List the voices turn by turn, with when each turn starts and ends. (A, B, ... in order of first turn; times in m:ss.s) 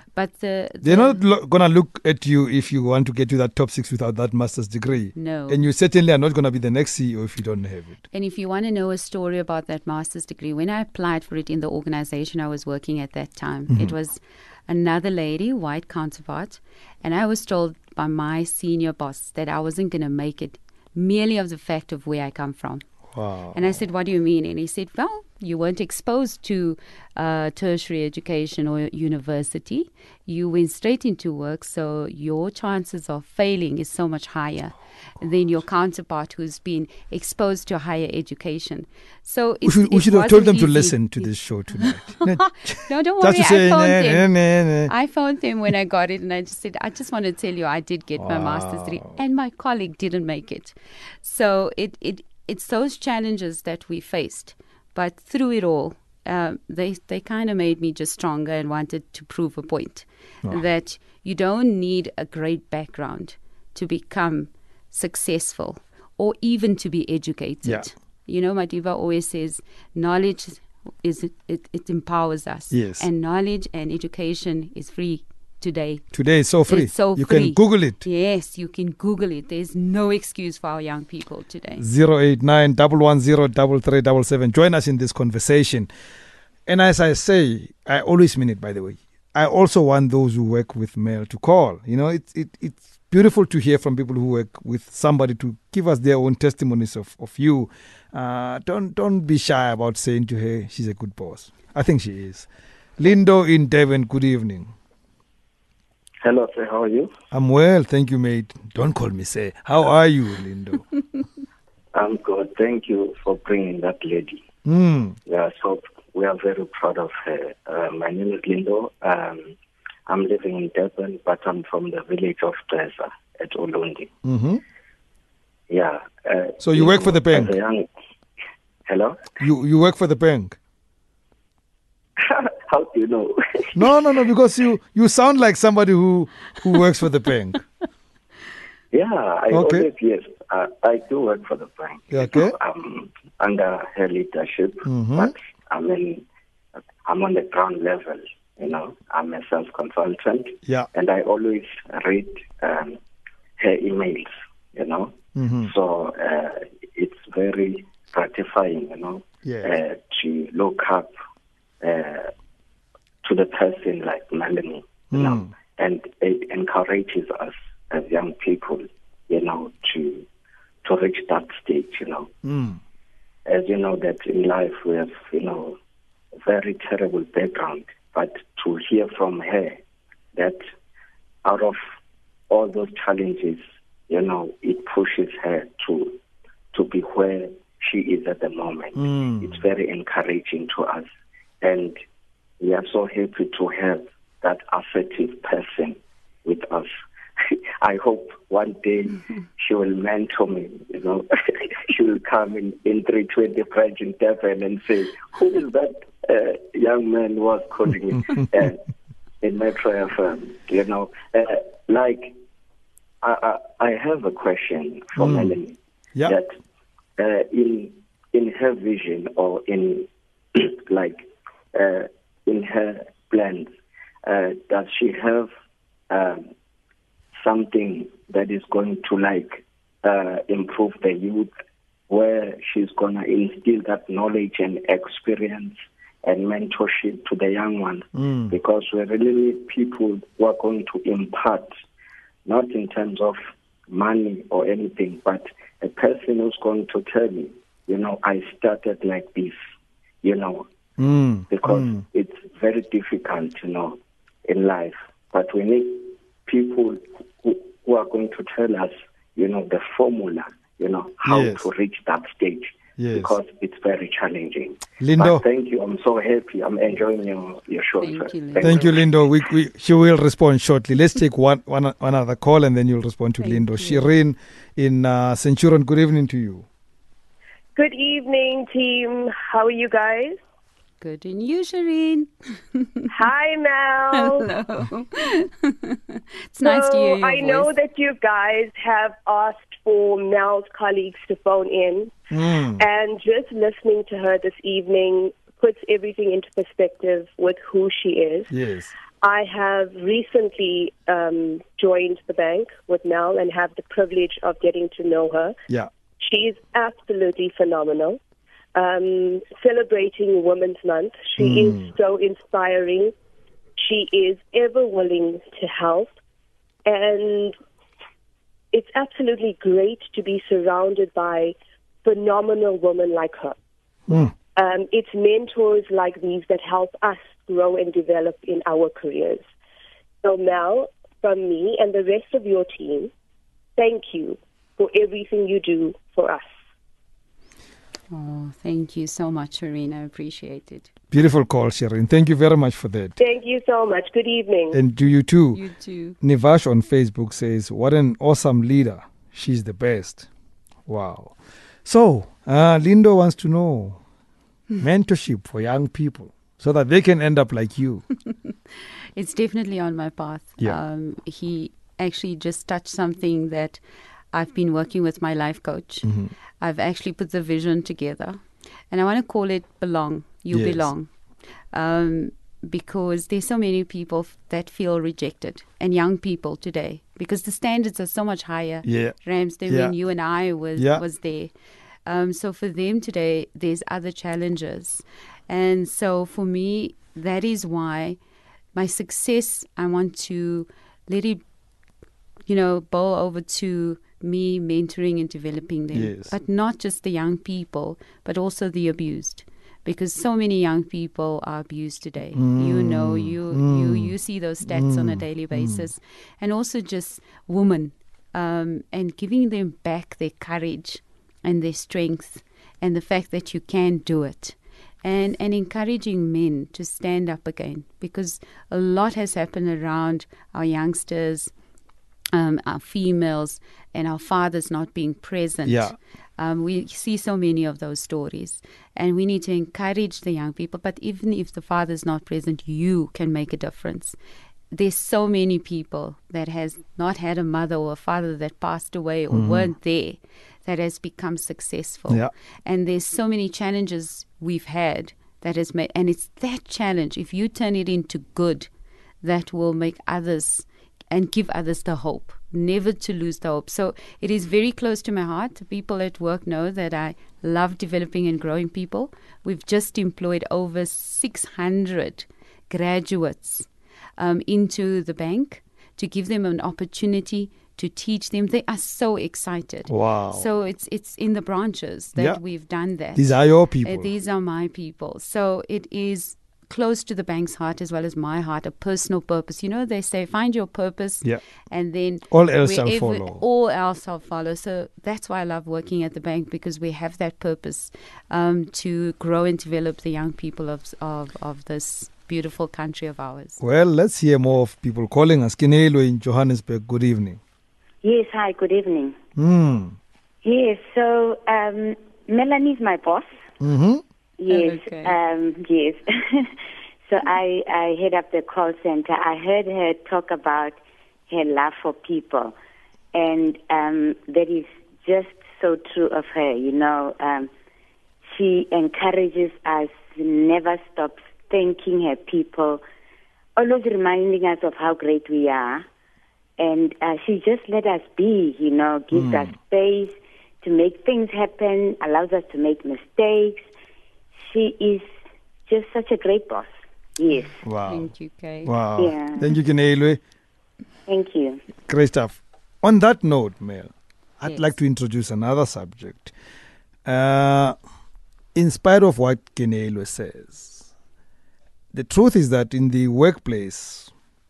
0:00.2-0:01.2 A
0:00.8-0:08.0 B
0:05.2-0:05.6 A
0:08.1-0:22.9 A
0:13.7-0:13.9 B
0:23.1-0:23.8 B
0:23.5-0:44.3 A
0:39.6-0:44.9 B
0:44.8-1:16.1 A
0:48.2-0:49.2 B
1:07.6-1:07.9 B
1:12.7-1:13.1 B
1:16.1-1:18.0 B
1:16.7-1:21.8 A
1:21.8-1:25.9 B
1:26.7-1:44.7 B
1:46.2-1:47.1 C
1:47.3-1:50.9 B
1:51.9-1:54.5 C
1:54.6-1:55.2 B
1:55.3-1:59.6 C
2:00.1-2:04.1 C
2:04.2-2:04.6 B
2:05.7-2:07.9 C
2:06.6-2:07.6 B
2:08.9-2:09.2 C
2:09.4-2:10.6 B
2:12.2-2:13.9 C
2:13.8-2:17.6 B
2:18.9-2:26.2 C
2:19.5-2:19.9 B
2:22.1-2:22.6 B
2:24.8-2:25.3 B
2:27.1-2:33.0 C
2:33.6-2:41.1 C
2:35.4-2:35.7 B
2:39.4-2:39.8 B
2:41.8-2:42.3 C
2:43.2-2:50.3 C
2:45.1-2:45.5 B
2:50.8-2:52.3 C
2:52.4-2:52.8 B
2:53.5-2:55.8 C
2:56.4-2:59.8 C
3:00.4-3:00.6 C
3:01.4-3:01.8 C
3:02.5-3:06.2 C
3:06.7-3:11.1 C
3:09.0-3:09.6 B
3:11.6-3:12.0 C
3:12.6-3:16.9 C
3:17.4-3:28.8 C
3:29.4-3:32.4 C
3:33.2-3:36.5 C
3:35.2-3:35.6 B
3:37.2-3:43.7 C
3:44.2-3:45.5 C
3:46.1-3:46.5 C
3:47.4-3:51.5 C
3:52.1-4:01.7 C
3:58.2-3:58.5 B
4:02.4-4:03.4 C
4:03.9-4:09.6 C
4:10.2-4:10.7 C
4:11.0-4:12.0 B
4:11.5-4:29.1 C
4:21.2-4:21.7 B
4:23.0-4:23.4 B
4:25.0-4:25.4 B
4:28.0-4:28.9 A
4:28.6-4:36.6 B
4:33.4-4:34.1 A
4:37.8-4:40.4 D
4:41.0-4:43.1 A
4:43.1-4:44.5 D
4:44.1-4:47.7 A
4:46.6-4:52.2 D
4:52.3-4:52.8 B
4:52.8-4:58.5 D
4:58.5-4:58.9 B
4:59.2-5:05.6 D
5:06.2-5:08.2 D
5:08.8-5:13.1 D
5:11.4-5:11.9 B
5:13.8-5:16.1 D
5:16.9-5:17.6 D
5:18.7-5:23.6 D
5:24.1-5:24.3 B
5:24.6-5:29.4 D
5:30.2-5:33.1 D
5:33.8-5:36.6 D
5:38.1-5:40.9 A
5:41.1-5:43.2 B
5:43.2-5:44.8 D
5:44.7-5:45.6 B
5:45.5-5:46.2 A
5:46.2-5:50.3 B
5:50.9-5:54.0 B
5:54.8-5:58.0 B
5:59.2-6:03.8 A
6:04.3-6:11.1 A
6:06.0-6:06.3 B
6:10.5-6:10.9 B
6:11.7-6:21.5 A
6:18.8-6:19.2 B
6:19.7-6:20.0 B
6:20.8-6:21.0 B
6:22.1-6:28.2 A
6:28.8-6:31.4 A
6:32.5-7:01.5 A
6:35.9-6:36.3 B
6:42.4-6:44.1 B
6:44.6-6:45.9 B
7:02.3-7:14.2 A
7:05.7-7:06.0 B
7:14.7-7:28.7 A
7:19.3-7:19.7 B
7:29.2-8:13.6 A
7:49.9-7:50.5 B
7:53.2-7:54.1 B
8:02.3-8:03.4 B
8:13.6-8:17.4 B
8:18.0-8:19.2 E
8:19.4-8:20.0 B
8:20.4-8:23.4 E
8:23.6-8:24.0 B
8:24.4-8:26.5 E
8:24.5-8:25.2 A
8:27.1-8:32.6 E
8:33.1-8:37.5 E
8:38.3-8:42.8 E
8:43.6-8:45.8 E
8:46.6-8:53.7 E
8:49.1-8:49.5 B
8:54.4-8:55.1 E
8:55.7-8:57.6 E
8:57.6-8:58.1 B
8:57.8-8:58.7 A
8:58.6-9:00.2 B
8:59.0-8:59.5 E
9:01.1-9:01.6 E
9:01.9-9:06.3 B
9:04.4-9:04.8 A
9:07.0-9:07.8 B
9:08.6-9:10.9 B
9:11.9-9:14.1 B